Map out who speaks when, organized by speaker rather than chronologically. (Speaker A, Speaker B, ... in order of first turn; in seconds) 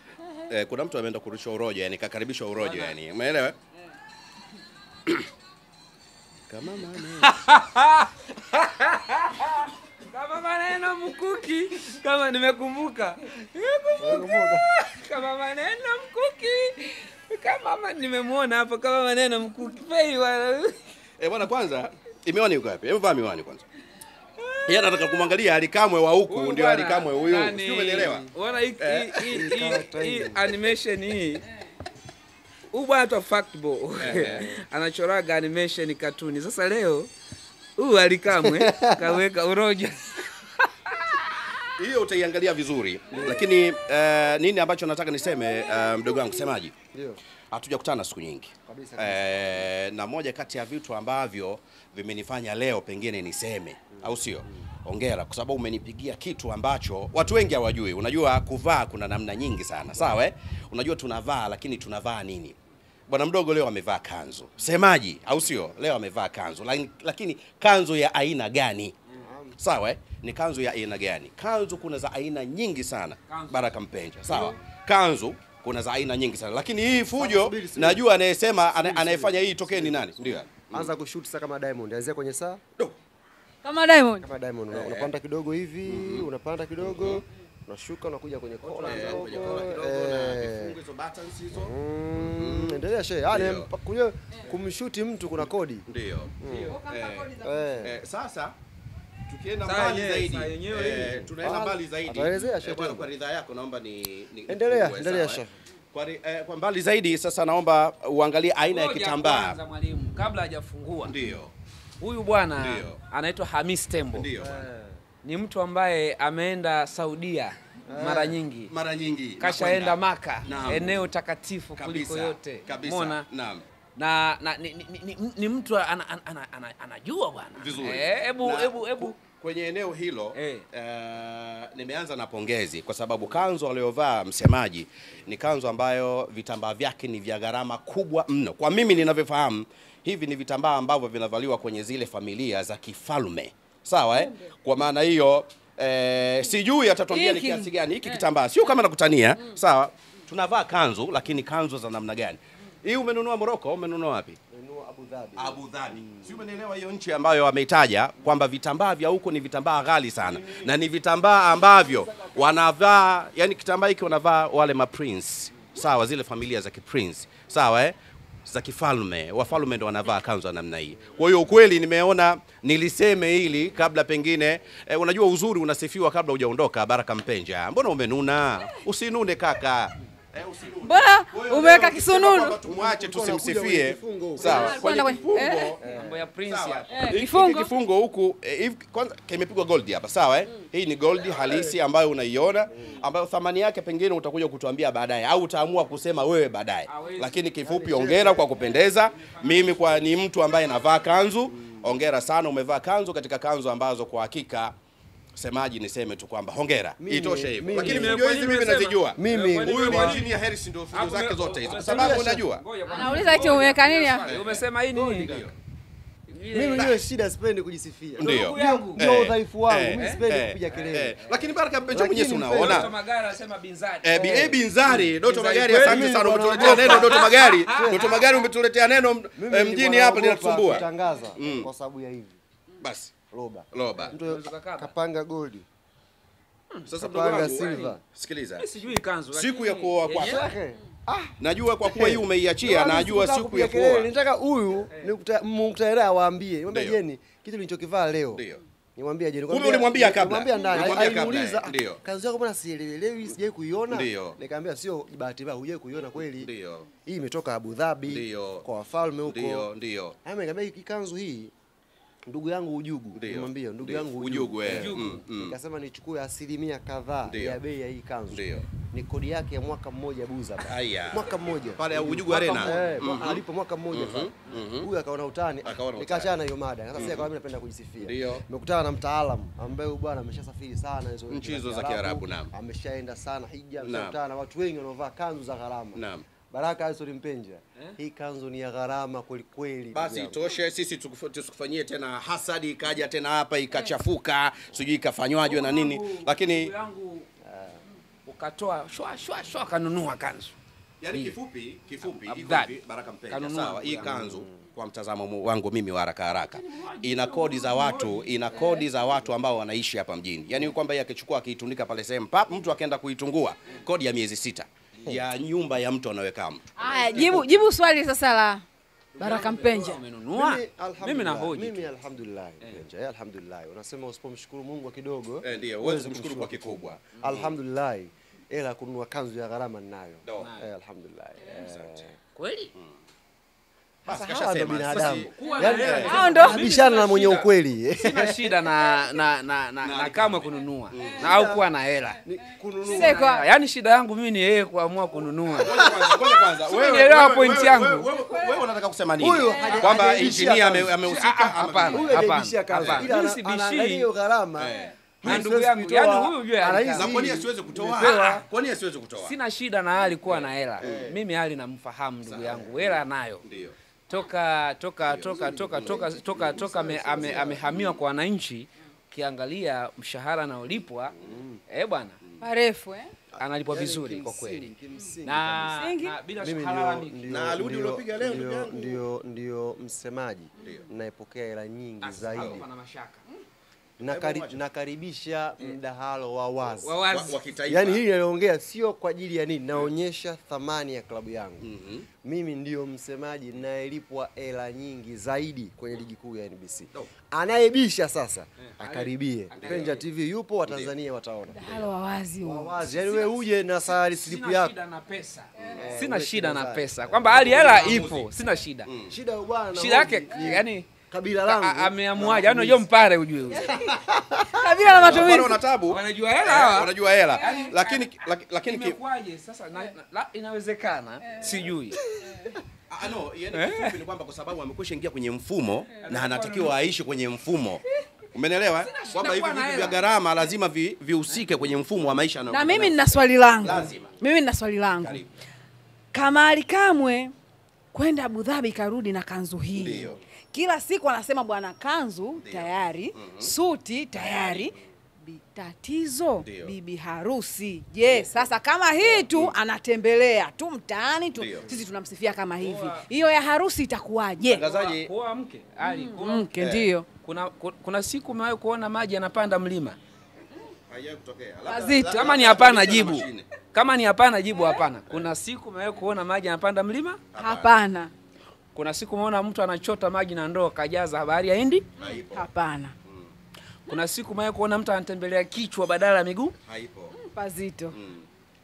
Speaker A: 0.5-3.5, 6.5-7.3, 21.2-23.6, 24.6-28.3, 28.8-29.3, 34.0-34.5, 41.8-46.7, 47.5-62.6, 63.1-68.9, 69.6-80.9, 84.7-85.1, 85.8-86.3, 86.8-87.2, 88.6-93.7, 95.4-96.3, 96.9-98.5, 99.3-109.6, 111.0-111.5, 112.6-113.0, 114.1-114.7, 118.7-121.0, 121.8-123.6, 127.5-154.4, 155.3-167.9, 168.4-185.8, 186.4-204.7, 205.3-215.6, 218.2-222.9, 224.0-231.7, 232.8-233.1, 233.7-234.1, 236.9-238.6, 239.3-240.5, 241.4-244.1, 246.7-247.0, 248.3-248.6, 249.5-252.0, 253.9-254.4, 256.2-256.9, 258.1-258.6, 259.2-260.1, 263.1-265.5, 267.2-267.6, 268.3-268.6, 270.6-274.9, 275.6-276.3, 276.9-277.3, 278.0-278.4, 281.3-282.5, 283.8-284.2, 285.9-286.2, 289.9-296.7, 301.0-316.7, 325.4-327.5, 331.5-332.1, 334.1-336.2, 339.8-341.3, 345.6-353.1, 354.6-355.5, 356.9-359.3, 360.2-361.1, 362.2-363.7, 365.1-366.0, 367.1-368.0, 377.3-379.0, 380.6-380.9, 382.4-382.6, 384.0-384.6, 387.1-388.0, 391.6-392.1, 399.6-399.9, 400.6-400.9, 407.3-408.2, 408.9-409.1, 414.9-419.0, 422.9-434.1, 435.0-435.2, 439.7-440.2, 442.4-443.5, 444.1-444.8, 446.4-446.8, 448.1-448.3, 449.0-449.6, 451.3-451.7, 454.5-455.1, 456.6-456.9, 460.9-463.5, 467.3-467.7, 472.0-472.5, 473.1-473.3, 476.7-477.2, 477.9-478.3
Speaker B: 2.5-3.0, 7.2-20.8, 26.3-31.4, 32.7-37.1, 37.8-41.2, 73.3-73.7, 88.8-89.5, 99.6-101.3, 108.7-111.2, 112.0-114.3, 115.2-118.7, 119.4-123.2, 124.0-129.2, 130.3-130.7, 185.9-186.8, 196.9-197.4, 199.1-200.0, 207.8-210.3, 210.9-215.4, 216.3-216.9, 218.2-219.1, 219.9-221.4, 222.5-228.1, 234.0-234.9, 236.7-238.0, 238.6-240.5, 244.9-245.2, 264.7-265.2, 272.3-273.0, 295.4-297.3, 298.2-300.6, 301.1-301.4, 302.0-304.1, 306.6-308.6, 319.1-321.9, 330.4-330.7, 332.3-332.7, 334.9-342.2, 342.9-345.7, 346.6-348.1, 351.0-354.1, 355.2-357.1, 358.0-358.4, 359.2-363.4, 364.1-371.1, 371.7-372.2, 373.4-374.7, 375.2-377.2, 382.0-383.2, 386.8-387.4, 398.6-400.0, 403.0-403.4, 404.0-408.9, 409.7-410.9, 411.4-413.7, 415.9-418.1, 418.6-422.0, 423.5-424.0, 426.0-426.8, 428.8-430.0, 452.6-453.1, 454.6-456.5, 457.2-460.0, 462.1-467.2, 468.7-471.9, 473.9-476.5
Speaker C: 14.0-14.7, 29.3-30.4, 34.0-34.5, 38.4-39.2, 43.1-43.5, 46.9-47.2, 48.6-49.7, 53.9-54.3, 69.2-69.6, 77.1-78.0, 78.7-82.6, 84.2-90.8, 91.5-95.8, 96.4-96.8, 97.4-97.9, 101.4-103.1, 104.5-105.5, 114.4-115.0, 117.9-118.4, 154.5-156.4, 182.7-184.8, 185.8-186.1, 197.6-198.5, 207.0-208.2, 209.2-210.2, 211.8-212.4, 215.1-215.4, 216.5-221.2, 221.9-222.9, 224.2-224.6, 225.8-228.2, 229.3-232.4, 233.3-235.6, 237.0-238.0, 240.1-248.4, 248.9-256.5, 257.0-259.7, 260.2-261.5, 262.2-290.4, 297.4-297.8, 304.0-304.6, 316.8-317.6, 320.3-332.1, 334.1-338.5, 341.2-341.6, 342.2-343.1, 345.6-346.2, 349.2-351.0, 351.9-358.4, 360.8-361.1, 365.1-367.6, 371.2-371.6, 373.6-375.8, 376.4-382.6, 384.0-386.9, 387.6-391.7, 392.2-401.6, 402.4-404.7, 405.7-407.8, 409.1-412.9, 413.5-415.1
Speaker D: 83.6-84.3, 96.5-97.9, 147.1-148.2, 180.8-182.6, 184.4-185.8, 186.9-187.7, 212.9-214.3, 316.8-318.6, 319.2-320.0, 335.6-336.6, 342.8-343.5, 348.3-348.6, 349.4-350.3, 372.4-373.1, 375.8-376.2, 401.5-402.9, 405.6-405.9, 414.5-415.6, 422.3-422.5, 432.5-435.2, 436.1-437.3, 437.9-454.6, 455.8-457.1, 461.6-462.3, 467.3-468.1, 472.0-472.9, 477.2-478.0